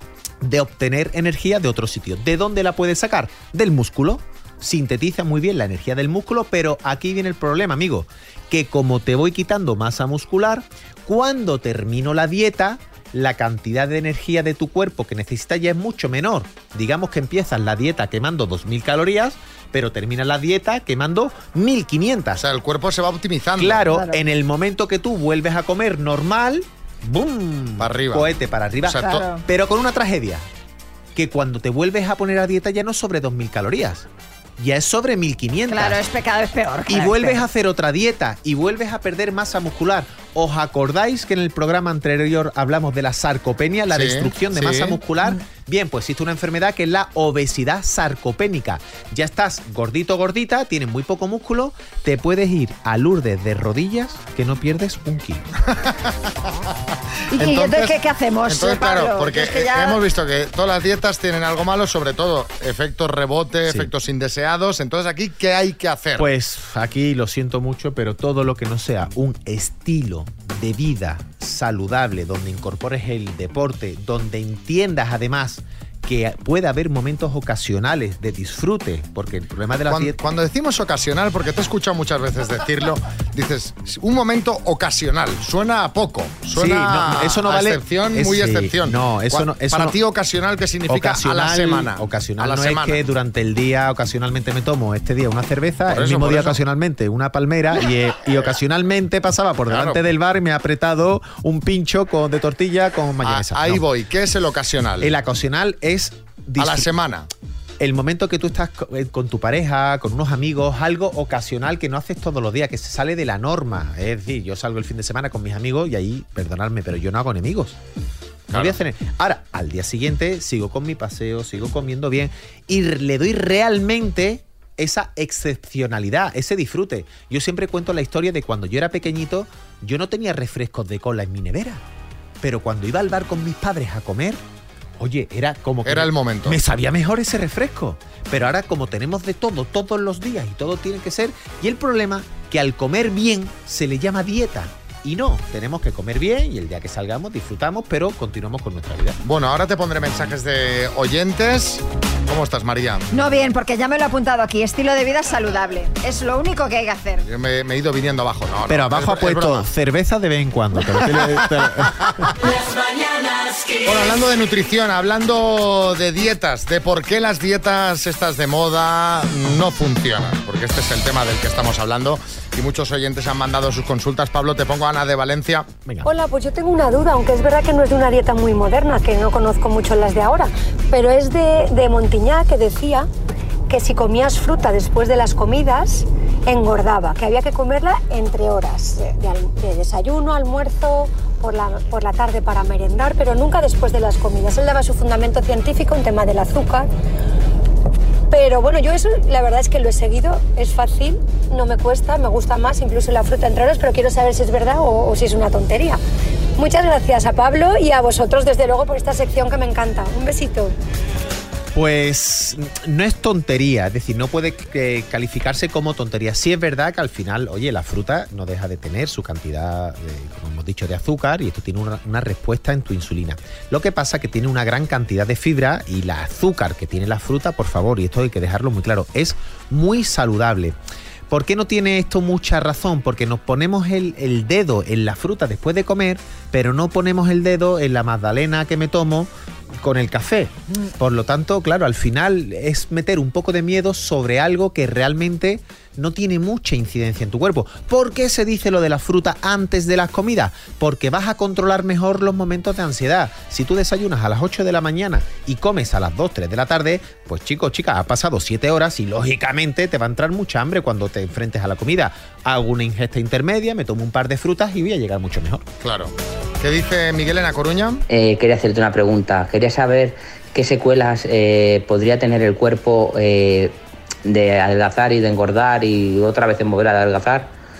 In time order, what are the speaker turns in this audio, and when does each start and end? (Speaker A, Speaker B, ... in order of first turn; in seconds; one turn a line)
Speaker A: 0.4-22.4
Speaker B: 22.4-23.8
Speaker A: 23.6-30.4
Speaker C: 23.9-24.2
Speaker B: 27.8-28.3
Speaker B: 28.9-29.2
Speaker C: 29.0-29.4
Speaker A: 31.1-34.0
Speaker A: 34.6-36.0
Speaker C: 35.7-37.4
Speaker A: 36.9-55.4
Speaker B: 43.9-45.0
Speaker C: 57.3-60.0
Speaker B: 57.4-66.3
Speaker A: 63.6-63.9
Speaker A: 66.2-80.2
Speaker B: 79.9-93.0
Speaker A: 86.5-90.0
Speaker A: 90.9-103.8
Speaker B: 95.9-96.6
Speaker B: 99.7-100.0
Speaker B: 103.2-105.1
Speaker A: 105.0-106.9
Speaker B: 106.6-107.3
Speaker A: 107.8-117.8
Speaker B: 118.5-118.8
Speaker A: 118.5-131.8
Speaker A: 132.4-134.4
Speaker A: 135.0-149.2
Speaker B: 135.8-136.6
Speaker B: 149.2-153.0
Speaker C: 153.1-157.2
Speaker B: 157.2-159.7
Speaker A: 158.7-162.3
Speaker B: 161.2-161.4
Speaker B: 162.0-162.3
Speaker B: 163.8-175.7
Speaker D: 176.0-183.1
Speaker D: 183.7-196.9
Speaker D: 198.3-206.0
Speaker D: 206.6-210.7
Speaker A: 211.7-230.8
Speaker A: 231.3-265.6
Speaker B: 265.8-268.0
Speaker E: 268.1-277.5